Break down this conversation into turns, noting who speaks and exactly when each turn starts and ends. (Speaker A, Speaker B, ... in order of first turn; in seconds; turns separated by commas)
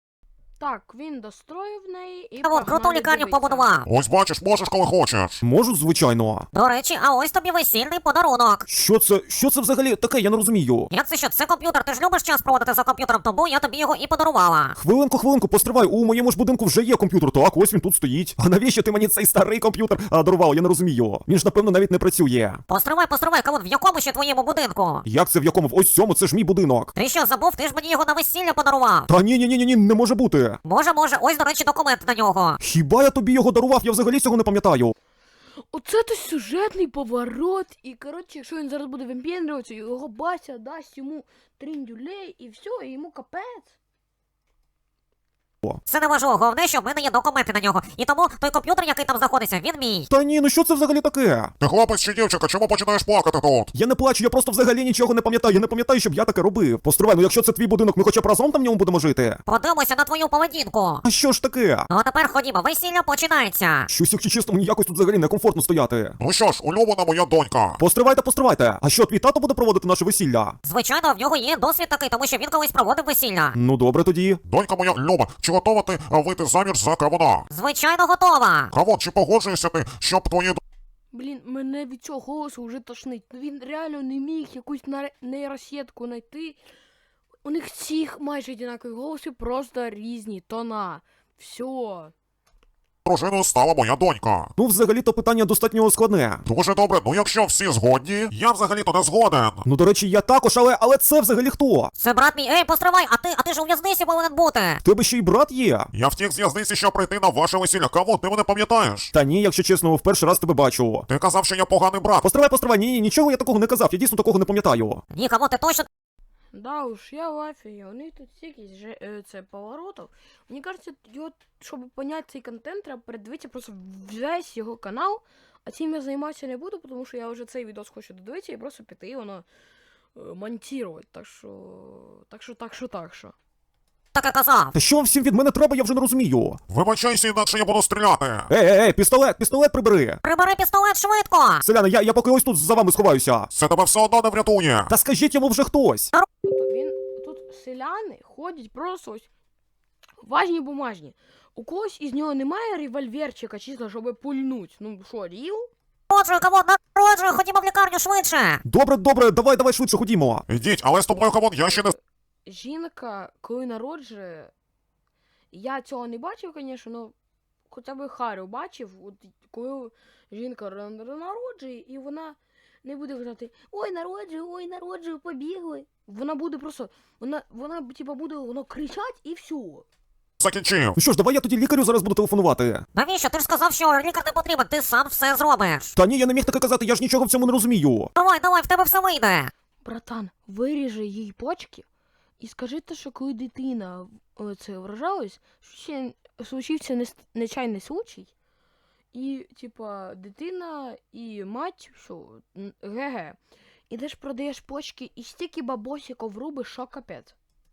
Speaker A: 0.6-3.7, Speaker B: 2.4-3.8, Speaker C: 3.8-5.4, Speaker D: 5.4-6.5, Speaker B: 6.5-8.6, Speaker D: 8.7-10.9, Speaker B: 10.9-14.7, Speaker D: 14.8-22.6, Speaker B: 22.7-25.0, Speaker D: 25.1-26.9, Speaker B: 27.0-29.0, Speaker D: 29.1-30.6, Speaker B: 30.6-32.6, Speaker D: 32.6-34.9, Speaker A: 35.7-43.8, Speaker B: 45.9-50.0, Speaker D: 50.1-51.5, Speaker C: 51.6-53.7, Speaker D: 53.7-59.4, Speaker B: 59.5-61.0, Speaker D: 61.0-61.9, Speaker B: 61.9-63.9, Speaker D: 63.9-66.2, Speaker C: 66.2-67.8, Speaker D: 67.8-70.6, Speaker B: 70.6-73.5, Speaker D: 73.5-74.4, Speaker C: 74.5-77.5, Speaker B: 77.5-78.7, Speaker C: 78.7-80.6, Speaker A: 81.1-86.6, Speaker A: 87.4-92.1, Speaker C: 93.0-94.5, Speaker D: 94.6-96.4, Speaker C: 96.5-99.6, Speaker D: 99.6-101.9, Speaker B: 102.0-104.8, Speaker D: 104.8-105.9, Speaker C: 105.9-109.1, Speaker D: 109.1-111.0, Speaker C: 111.1-112.2, Speaker D: 112.2-115.0, Speaker B: 115.1-115.9, Speaker A: 116.5-129.4, Speaker A: 130.1-133.3, Speaker B: 134.1-134.7, Speaker D: 134.7-136.6, Speaker C: 136.7-138.5, Speaker D: 138.5-140.2, Speaker B: 140.2-141.6, Speaker D: 141.6-143.5, Speaker C: 143.5-144.9, Speaker D: 144.9-146.1, Speaker A: 146.4-149.3, Speaker A: 150.2-155.7, Speaker B: 156.1-158.6, Speaker D: 158.6-160.4, Speaker C: 160.5-161.9, Speaker A: 162.4-164.5, Speaker A: 165.5-167.1, Speaker A: 167.7-179.8, Speaker C: 180.4-181.0, Speaker D: 180.9-182.8, Speaker B: 182.9-185.9, Speaker D: 185.9-188.1, Speaker B: 188.2-189.5, Speaker A: 189.8-191.8, Speaker A: 192.4-198.3, Speaker A: 199.1-203.4, Speaker A: 203.9-207.3